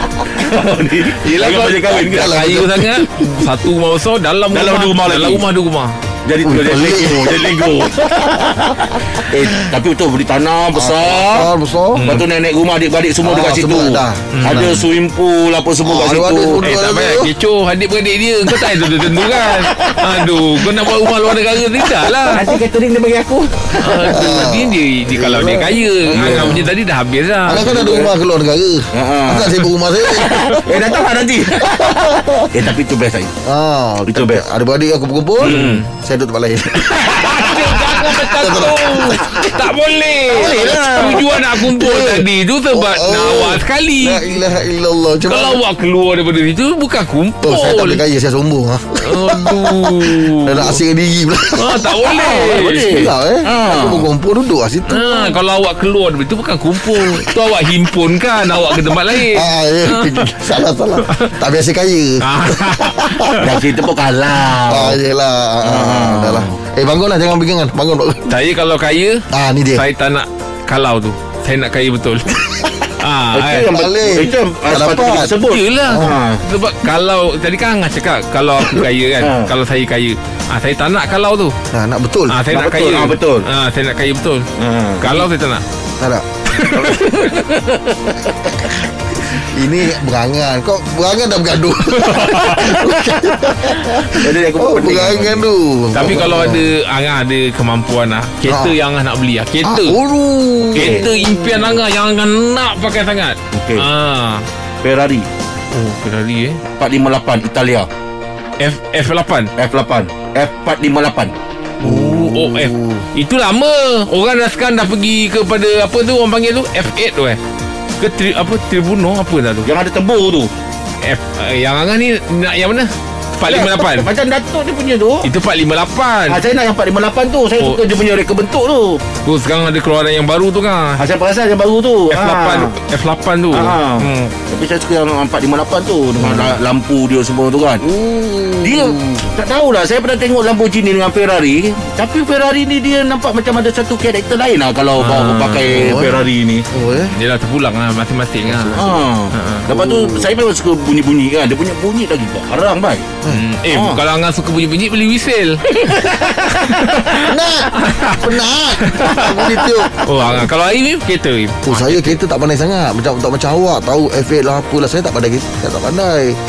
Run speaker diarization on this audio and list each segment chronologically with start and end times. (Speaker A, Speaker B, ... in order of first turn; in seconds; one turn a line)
Speaker A: 0.2-2.5
Speaker B: 1.2-6.0
Speaker C: 2.0-3.5
Speaker A: 4.5-5.4
Speaker A: 6.2-16.6
Speaker C: 6.4-8.5
Speaker C: 10.7-12.2
Speaker B: 11.9-12.2
Speaker C: 13.2-14.9
Speaker B: 14.3-14.7
Speaker C: 15.8-17.3
Speaker B: 16.6-22.4
Speaker A: 19.4-20.6
Speaker A: 22.3-24.2
Speaker B: 23.8-27.7
Speaker C: 24.1-26.7
Speaker A: 26.1-26.6
Speaker C: 27.4-30.9
Speaker A: 27.6-28.1
Speaker A: 28.9-33.3
Speaker C: 31.6-32.5
Speaker C: 33.4-39.6
Speaker A: 34.1-34.5
Speaker B: 35.4-35.9
Speaker A: 35.4-35.8
Speaker A: 36.9-37.8
Speaker B: 37.0-44.5
Speaker C: 40.3-45.6
Speaker A: 40.3-41.2
Speaker B: 45.2-48.0
Speaker C: 47.4-55.4
Speaker B: 49.0-50.8
Speaker B: 51.5-53.1
Speaker A: 52.1-54.1
Speaker B: 54.9-61.4
Speaker C: 56.8-57.3
Speaker C: 59.0-63.4
Speaker B: 62.2-63.5
Speaker A: 63.4-65.0
Speaker C: 64.7-68.3
Speaker A: 65.6-66.6
Speaker B: 68.2-73.7
Speaker C: 69.3-69.8
Speaker C: 72.5-72.9
Speaker A: 73.3-76.4
Speaker C: 73.7-75.3
Speaker B: 75.5-81.5
Speaker C: 75.8-76.1
Speaker A: 79.2-79.5
Speaker C: 81.7-82.4
Speaker B: 82.3-84.5
Speaker A: 82.5-83.5
Speaker A: 84.6-85.2
Speaker B: 85.0-85.6
Speaker C: 86.0-86.9
Speaker B: 86.5-87.3
Speaker A: 86.8-88.7
Speaker C: 89.3-96.7
Speaker B: 91.9-92.7
Speaker A: 92.5-95.5
Speaker B: 95.9-100.0
Speaker A: 96.0-96.5
Speaker C: 98.5-98.8
Speaker C: 99.6-101.8
Speaker A: 100.7-101.1
Speaker B: 100.8-104.5
Speaker A: 103.5-103.9
Speaker A: 104.8-105.3
Speaker B: 105.7-106.6
Speaker A: 106.8-107.9
Speaker B: 108.6-109.5
Speaker A: 109.6-111.3
Speaker C: 111.8-113.1
Speaker B: 111.8-117.4
Speaker B: 118.0-119.7
Speaker A: 119.6-120.5
Speaker B: 121.0-124.1
Speaker A: 123.5-125.3
Speaker B: 125.2-126.4
Speaker A: 126.3-129.0
Speaker B: 127.6-127.8
Speaker B: 129.2-131.0
Speaker A: 131.0-132.8
Speaker B: 132.1-134.3
Speaker A: 133.5-137.8
Speaker C: 136.2-136.6
Speaker C: 137.8-139.3
Speaker A: 138.6-146.7
Speaker B: 145.0-146.1
Speaker C: 145.7-147.1
Speaker B: 147.1-149.7
Speaker C: 148.5-149.0
Speaker A: 148.8-153.1
Speaker C: 149.7-150.3
Speaker B: 153.3-162.2
Speaker A: 153.7-154.0
Speaker A: 155.7-156.8
Speaker C: 157.2-160.5
Speaker C: 161.7-166.4